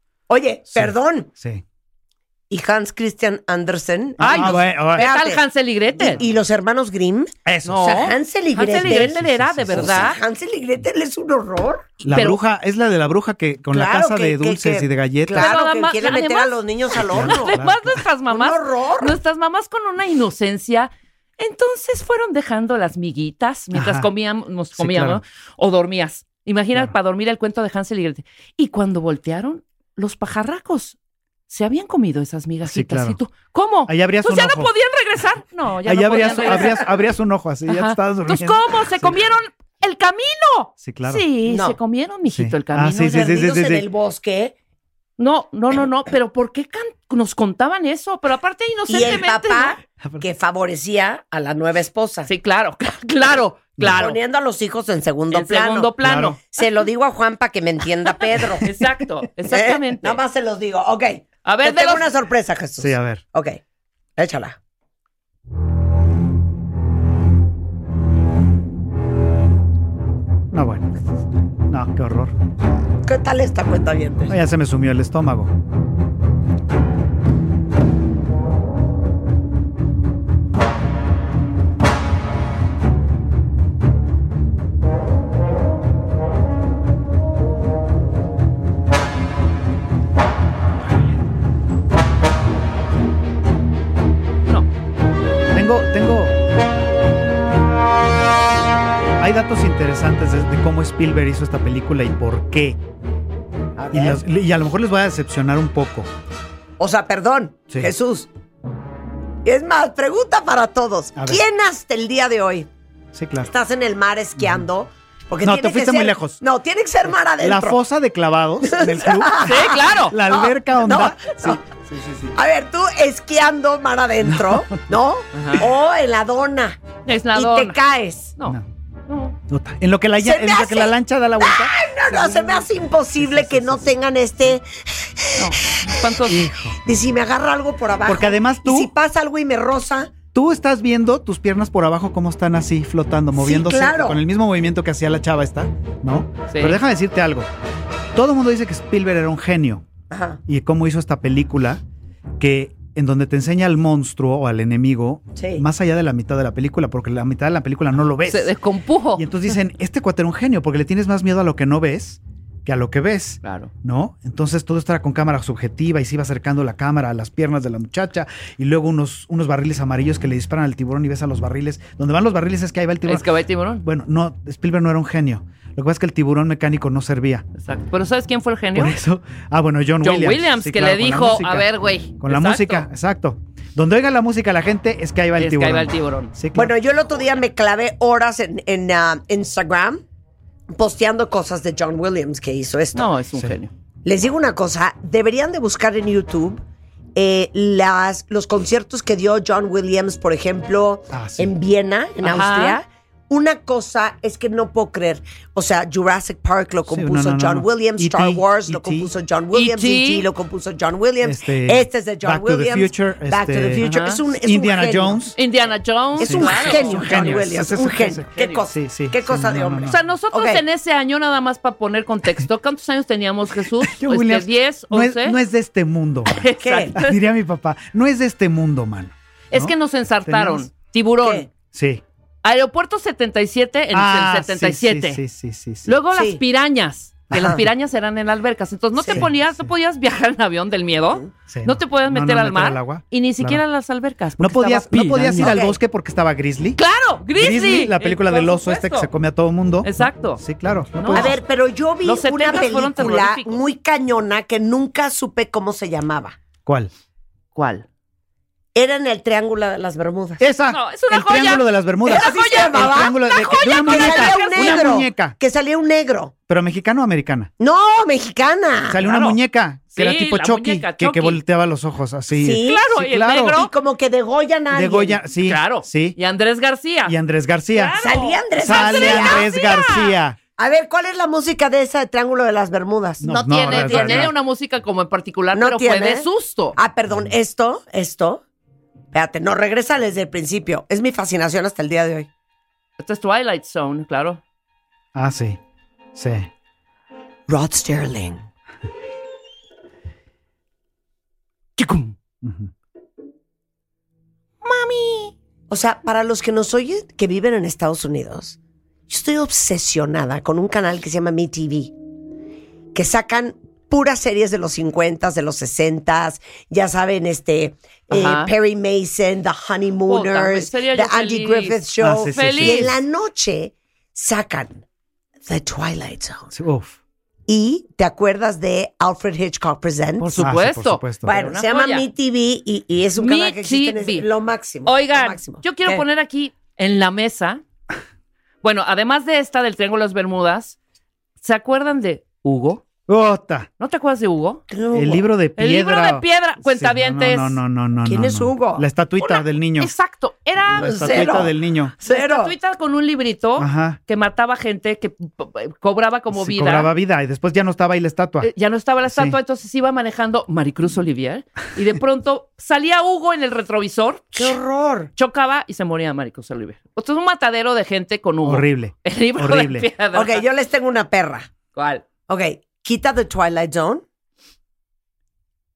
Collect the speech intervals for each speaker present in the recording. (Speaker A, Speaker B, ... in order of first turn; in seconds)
Speaker A: 0.3-1.3, 2.5-5.4, 6.0-9.2, 9.7-11.9, 13.7-17.6, 18.3-19.1, 36.2-36.7, 41.5-41.8, 43.0-44.5, 48.9-52.3, 53.8-55.9, 56.5-58.6, 59.4-63.6, 64.2-64.6, 73.0-74.3, 103.8-104.2, 106.8-108.3, 109.4-112.7, 113.4-117.8, 118.7-121.6, 122.3-126.8, 127.3-128.3, 130.2-136.0, 136.8-140.1, 143.3-144.2, 150.1-150.4, 155.3-155.7, 186.5-190.0, 190.7-193.1, 194.0-196.6, 197.2-215.3, 216.2-220.6, 226.6-226.9, 231.2-231.5, 236.1-236.4, 237.3-237.6, 239.0-239.2, 245.4-245.8, 251.1-256.4, 258.7-260.4, 262.1-266.3, 267.6-269.0, 272.3-272.8, 273.5-275.2, 278.0-279.4, 280.6-284.3, 285.5-288.4, 289.1-292.3, 297.5-298.4, 305.7-308.6, 309.1-311.9, 312.9-324.8, 325.4-326.5, 327.5-330.4, 331.2-336.0, 344.7-345.2, 348.0-348.8, 350.8-352.5, 364.3-365.1, 370.1-371.5, 372.3-374.0
Speaker B: 0.7-1.6, 4.2-5.1, 7.4-8.0, 8.6-10.1, 12.0-15.6, 16.9-18.0, 23.7-24.1, 24.8-25.2, 32.6-33.2, 33.9-34.7, 35.8-39.2, 40.8-41.2, 42.3-43.9, 53.8-54.0, 56.0-56.4, 62.8-63.2, 70.5-70.9, 71.7-72.3, 74.3-75.5, 95.5-96.3, 99.2-102.8, 103.9-106.1, 111.2-111.4, 113.1-113.5, 114.4-114.6, 115.4-116.4, 117.4-122.4, 124.2-124.7, 129.5-132.7, 133.2-133.9, 136.3-136.8, 138.0-138.9, 140.3-147.5, 148.1-149.8, 150.4-151.8, 152.4-158.5, 159.2-177.4, 178.7-186.7, 201.1-201.5, 206.9-209.1, 211.2-215.3, 216.2-220.0, 223.8-229.7, 230.2-230.7, 231.7-232.0, 233.9-235.9, 237.3-237.6, 239.1-239.7, 241.5-243.6, 244.4-246.8, 247.3-251.4, 256.6-256.9, 260.4-265.4, 266.5-267.5, 268.9-273.6, 274.7-276.2, 277.1-278.0, 278.6-280.4, 283.2-284.3, 295.1-295.6, 296.1-296.5, 302.4-302.7, 322.0-322.9, 326.5-327.0, 330.4-331.3, 343.1-343.7, 344.9-349.9, 350.8-351.9, 353.6-354.0, 356.3-358.5, 359.0-359.4, 368.4-369.9
Speaker C: 4.2-6.2, 7.6-10.2, 12.0-12.4, 15.3-30.9, 31.5-36.8, 37.7-43.2, 45.2-49.8, 52.2-54.2, 55.3-56.6, 58.6-60.2, 61.4-62.0, 119.4-120.2, 125.3-125.6, 127.0-127.8, 129.1-129.4, 135.3-136.4, 146.5-146.8, 158.3-159.3, 163.4-163.7, 173.1-173.8, 177.6-179.0, 180.0-182.9, 185.4-186.3, 192.9-193.7, 202.2-202.8, 209.5-210.2, 213.8-214.2, 215.4-217.5, 218.3-218.6, 219.8-225.4, 226.3-227.2, 229.5-231.5, 232.4-235.2, 235.8-245.6, 246.8-249.1, 249.8-250.4, 250.9-251.3, 252.0-253.6, 257.5-257.9, 260.7-264.9, 269.0-269.4, 269.9-271.4, 272.6-273.7, 275.4-277.1, 277.7-280.1, 283.2-286.8, 293.0-294.4, 301.8-302.1, 304.6-305.3, 318.1-318.5, 320.1-322.9, 330.2-332.1, 333.1-334.3, 334.8-337.6, 338.6-340.8, 341.4-342.8, 343.8-344.6, 345.6-347.6, 349.2-351.4, 352.0-356.9, 358.4-364.6, 365.1-370.4, 371.7-372.1